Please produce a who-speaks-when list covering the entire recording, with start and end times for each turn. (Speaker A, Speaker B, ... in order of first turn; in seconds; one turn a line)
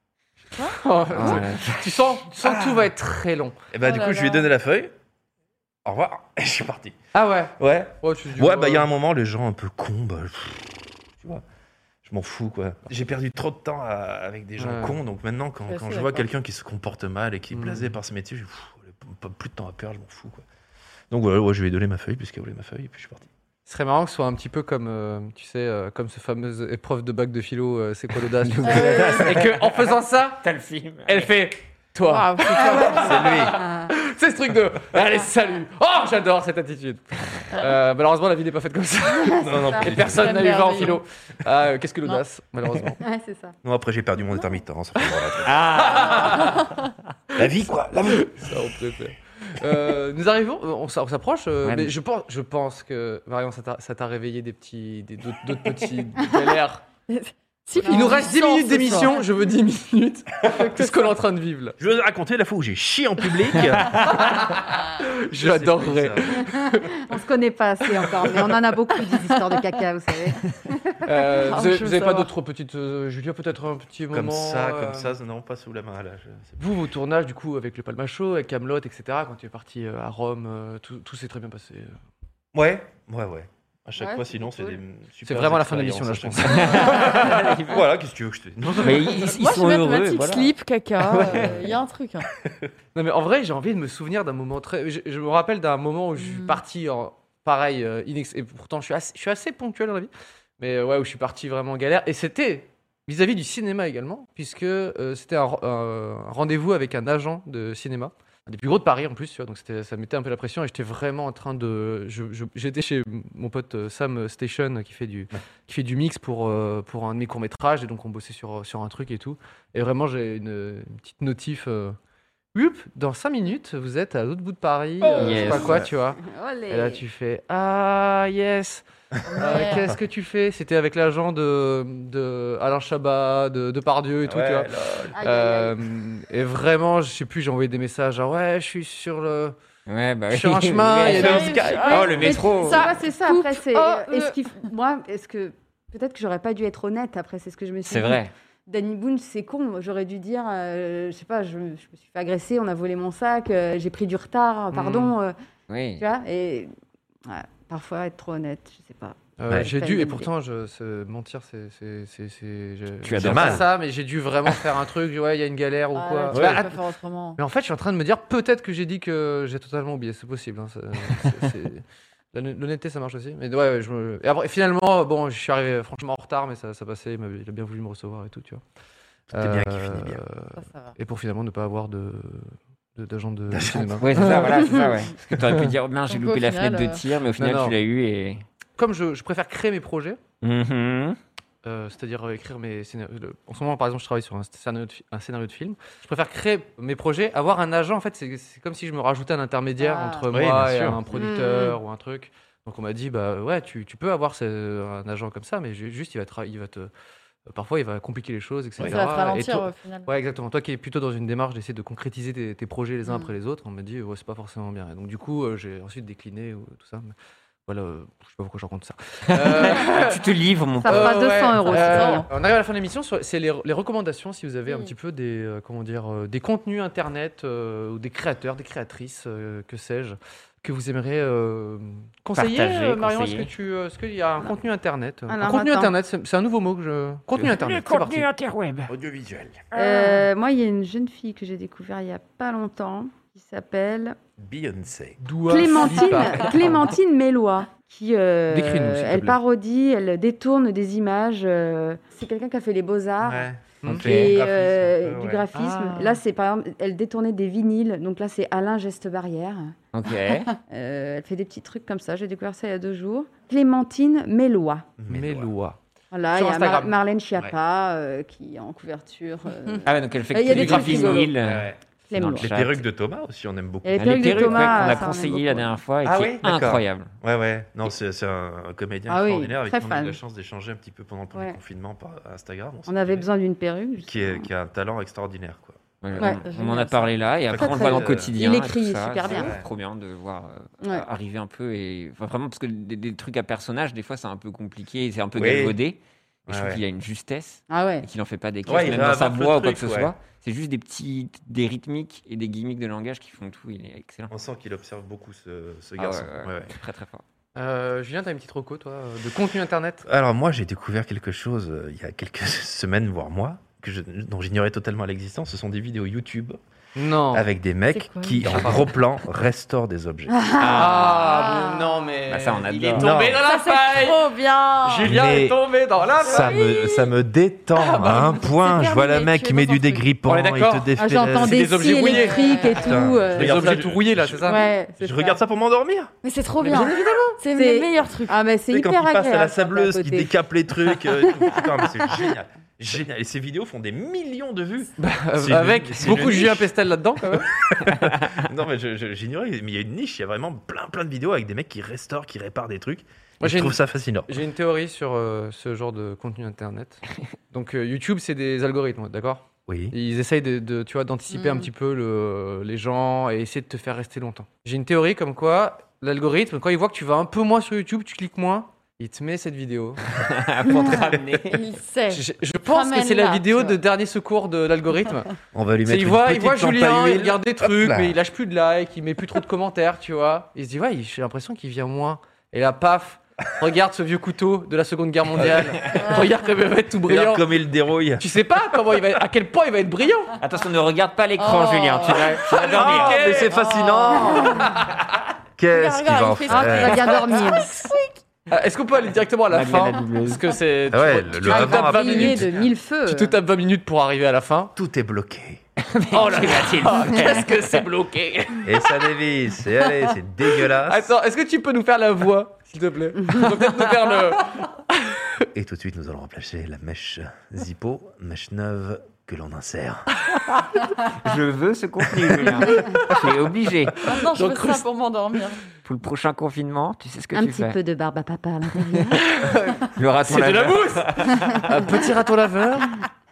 Speaker A: 0.7-3.5
Speaker B: 1.1-2.1
Speaker C: 2.4-2.8
Speaker C: 3.7-4.9
Speaker D: 3.8-4.5
Speaker C: 5.8-7.0
Speaker A: 7.1-8.9
Speaker C: 7.6-11.4
Speaker C: 12.0-20.4
Speaker A: 14.6-15.0
Speaker D: 15.7-16.2
Speaker A: 17.5-17.9
Speaker C: 21.1-23.3
Speaker A: 23.6-30.4
Speaker B: 28.4-31.4
Speaker D: 28.7-29.2
Speaker A: 31.1-43.0
Speaker D: 32.0-33.0
Speaker C: 32.8-33.6
Speaker C: 39.4-40.4
Speaker D: 39.9-41.0
Speaker E: 43.0-43.5
Speaker C: 43.6-45.8
Speaker B: 45.4-46.6
Speaker A: 45.8-46.6
Speaker C: 47.4-48.5
Speaker A: 48.0-56.8
Speaker B: 51.6-52.0
Speaker D: 57.1-59.3
Speaker A: 57.8-61.8
Speaker D: 60.8-61.0
Speaker C: 61.8-64.4
Speaker A: 63.9-67.0
Speaker C: 65.3-66.5
Speaker E: 66.6-70.4
Speaker A: 71.0-75.1
Speaker D: 71.4-72.3
Speaker C: 74.1-76.6
Speaker A: 76.6-82.0
Speaker C: 82.5-89.2
Speaker D: 84.1-84.6
Speaker A: 85.2-87.4
Speaker B: 86.4-87.8
Speaker B: 88.8-91.6
Speaker D: 89.2-92.3
Speaker A: 92.9-122.0
Speaker D: 96.2-96.6
Speaker A: 122.5-128.8
Speaker C: 125.0-125.5
Speaker B: 125.2-125.9
Speaker E: 126.2-127.0
Speaker A: 129.4-139.5
Speaker D: 129.4-129.8
Speaker C: 134.2-135.1
Speaker E: 135.2-135.7
Speaker B: 139.9-142.9
Speaker A: 140.3-142.4
Speaker C: 141.0-142.1
Speaker D: 141.1-144.3
Speaker E: 142.0-155.3
Speaker B: 147.9-148.3
Speaker A: 154.7-155.2
Speaker B: 155.7-156.0
Speaker E: 156.0-156.7
Speaker E: 157.3-160.3
Speaker A: 159.4-166.8
Speaker B: 163.0-163.7
Speaker C: 163.2-163.7
Speaker D: 165.9-167.4
Speaker C: 166.3-166.6
Speaker A: 167.4-178.6
Speaker A: 179.3-184.8
Speaker C: 179.3-180.2
Speaker D: 180.6-180.9
Speaker C: 183.5-184.0
Speaker B: 184.0-188.4
Speaker A: 185.4-185.7
Speaker D: 186.1-187.0
Speaker A: 187.4-187.8
Speaker A: 188.8-190.2
Speaker B: 190.4-191.2
Speaker A: 191.6-206.9
Speaker D: 199.8-200.2
Speaker C: 200.3-201.0
Speaker E: 201.1-201.8
Speaker A: 207.5-217.1
Speaker D: 208.8-210.1
Speaker D: 213.1-213.3
Speaker A: 217.7-220.2
Speaker B: 219.3-222.0
Speaker E: 220.8-222.3
Speaker A: 220.8-238.3
Speaker D: 221.9-222.3
Speaker D: 224.7-224.9
Speaker B: 232.3-233.5
Speaker E: 235.3-235.9
Speaker B: 237.3-238.9
Speaker C: 238.9-239.7
Speaker E: 239.7-244.2
Speaker D: 239.7-240.2
Speaker C: 244.4-245.2
Speaker A: 245.2-246.8
Speaker E: 245.5-259.7
Speaker A: 248.5-249.4
Speaker C: 253.2-255.5
Speaker A: 253.8-254.1
Speaker B: 253.9-254.4
Speaker A: 255.5-256.2
Speaker B: 259.9-260.5
Speaker E: 260.7-264.9
Speaker C: 265.0-265.5
Speaker A: 265.1-265.8
Speaker E: 266.1-271.3
Speaker A: 266.3-266.9
Speaker B: 269.9-272.8
Speaker A: 270.4-271.3
Speaker C: 271.4-271.8
Speaker E: 272.1-272.5
Speaker C: 272.4-275.2
Speaker E: 273.8-275.8
Speaker B: 274.0-277.1
Speaker C: 276.0-283.3
Speaker E: 279.1-280.2
Speaker E: 281.3-281.6
Speaker E: 282.9-284.5
Speaker C: 284.0-286.3
Speaker B: 286.0-304.3
Speaker D: 286.3-287.1
Speaker C: 287.5-288.4
Speaker E: 287.6-289.5
Speaker C: 289.3-289.6
Speaker C: 295.4-295.8
Speaker C: 296.5-296.8
Speaker E: 297.7-298.0
Speaker C: 298.6-300.1
Speaker C: 304.3-306.7
Speaker B: 306.0-307.2
Speaker A: 307.6-310.1
Speaker C: 310.1-316.6
Speaker A: 316.9-317.5
Speaker C: 317.3-320.5
Speaker D: 317.9-318.8
Speaker A: 318.4-318.9
Speaker E: 320.3-321.6
Speaker B: 320.6-321.4
Speaker A: 320.7-324.2
Speaker D: 321.3-321.8
Speaker B: 322.3-323.1
Speaker C: 322.9-323.4
Speaker D: 323.4-325.2
Speaker A: 324.8-326.6
Speaker C: 325.0-325.6
Speaker D: 326.2-327.1
Speaker C: 326.2-336.1
Speaker D: 327.8-330.1
Speaker A: 327.9-328.3
Speaker A: 330.2-332.7
Speaker E: 331.0-333.6
Speaker D: 332.1-333.0
Speaker A: 333.3-334.6
Speaker E: 334.4-335.4
Speaker D: 336.2-338.4
Speaker A: 336.6-337.4
Speaker E: 337.4-340.3
Speaker C: 338.7-346.7
Speaker E: 341.4-342.1
Speaker A: 345.0-347.5
Speaker C: 347.3-354.4
Speaker B: 347.9-348.4
Speaker A: 353.4-370.0
Speaker C: 359.7-359.9
Speaker D: 361.3-361.7
Speaker B: 370.1-371.6
Speaker D: 371.5-373.8
Speaker A: 372.1-375.3
Speaker C: 375.5-378.1
Speaker A: 375.9-387.4
Speaker C: 387.1-388.4
Speaker A: 388.2-390.4
Speaker B: 390.4-393.5
Speaker D: 391.4-392.4
Speaker A: 392.5-393.6
Speaker C: 392.6-394.8
Speaker D: 393.5-394.6
Speaker A: 394.5-394.9
Speaker C: 395.6-397.2
Speaker D: 395.7-398.2
Speaker E: 396.5-397.7
Speaker A: 398.5-404.7
Speaker B: 399.5-400.5
Speaker C: 400.9-402.5
Speaker E: 401.4-403.4
Speaker C: 404.8-405.6
Speaker B: 405.8-407.9
Speaker A: 406.1-408.9
Speaker C: 408.6-411.1
Speaker A: 410.8-415.5
Speaker C: 415.5-420.1
Speaker B: 420.3-424.1
Speaker A: 422.6-423.1
Speaker D: 424.0-425.6
Speaker A: 424.3-424.8
Speaker B: 425.8-427.8
Speaker E: 427.3-429.2
Speaker A: 429.1-433.0
Speaker B: 429.9-431.7